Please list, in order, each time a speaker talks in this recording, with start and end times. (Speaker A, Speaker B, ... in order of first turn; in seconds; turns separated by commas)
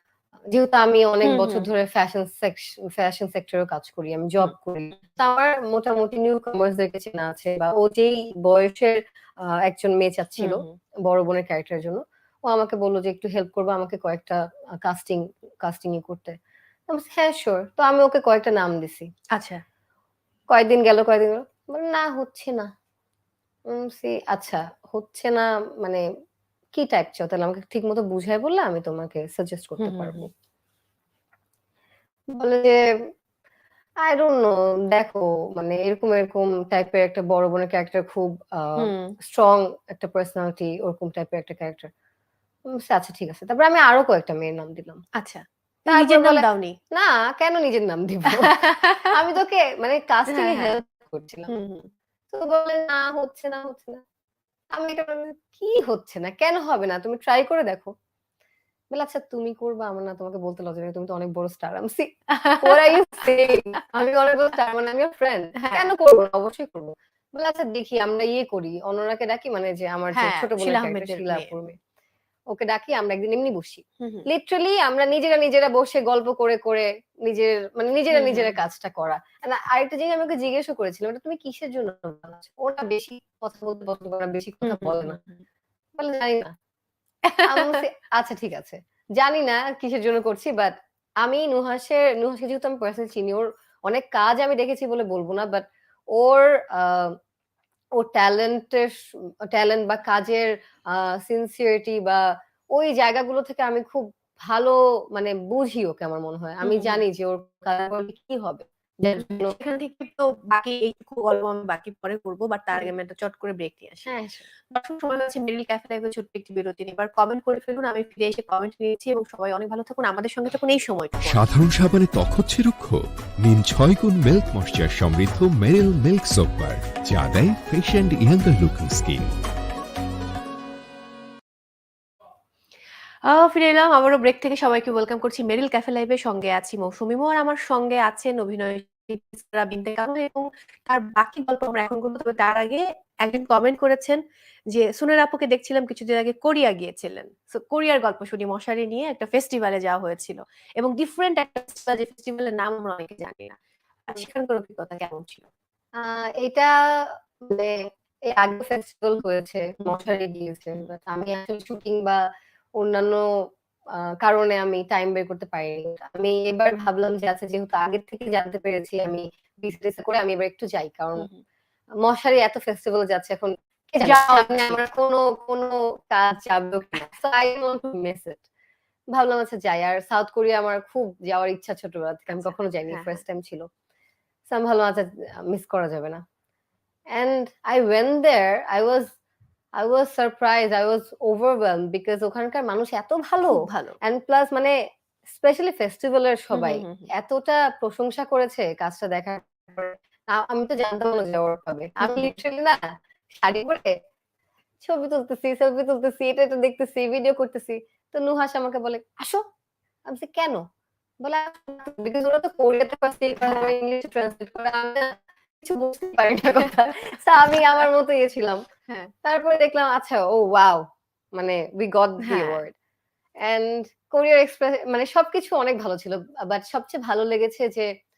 Speaker A: 0.5-16.4, Speaker B: 1.2-1.7, Speaker B: 10.4-10.8, Speaker A: 16.9-19.1, Speaker B: 19.3-19.6, Speaker A: 20.5-22.7, Speaker A: 23.7-26.0, Speaker A: 26.7-30.3, Speaker B: 29.8-30.3, Speaker A: 32.3-32.8, Speaker A: 34.0-41.9, Speaker B: 38.8-39.2, Speaker A: 42.7-45.0, Speaker B: 45.1-46.8, Speaker A: 45.9-51.5, Speaker B: 48.2-49.2, Speaker B: 50.3-50.8, Speaker B: 51.5-51.9, Speaker A: 52.3-54.0, Speaker A: 54.7-57.9, Speaker A: 58.9-71.8, Speaker B: 62.3-63.9, Speaker B: 65.6-65.9, Speaker B: 70.1-71.6, Speaker A: 72.5-85.2, Speaker B: 74.0-74.3, Speaker B: 78.1-78.6, Speaker B: 84.6-85.4, Speaker A: 86.0-86.5, Speaker B: 87.2-87.9, Speaker A: 87.4-97.2, Speaker A: 98.0-109.5, Speaker B: 106.6-107.1, Speaker B: 109.2-114.2, Speaker A: 114.1-114.4, Speaker B: 114.7-121.5, Speaker C: 121.2-129.3, Speaker B: 133.2-144.2, Speaker B: 144.7-155.5, Speaker A: 156.0-162.2, Speaker A: 162.8-171.3, Speaker A: 172.0-178.4, Speaker B: 174.0-174.8, Speaker A: 179.1-183.7, Speaker B: 182.3-183.2, Speaker A: 184.5-186.2, Speaker A: 187.1-189.1, Speaker A: 189.8-194.7, Speaker B: 193.4-194.0, Speaker A: 195.3-202.8, Speaker B: 196.5-197.1, Speaker B: 202.0-202.3, Speaker A: 203.4-203.9, Speaker A: 204.8-209.4, Speaker A: 210.1-210.6, Speaker A: 211.2-218.6, Speaker B: 213.4-213.7, Speaker B: 217.5-217.8, Speaker A: 219.2-220.8, Speaker A: 221.3-222.7, Speaker B: 222.2-222.6, Speaker A: 223.4-227.9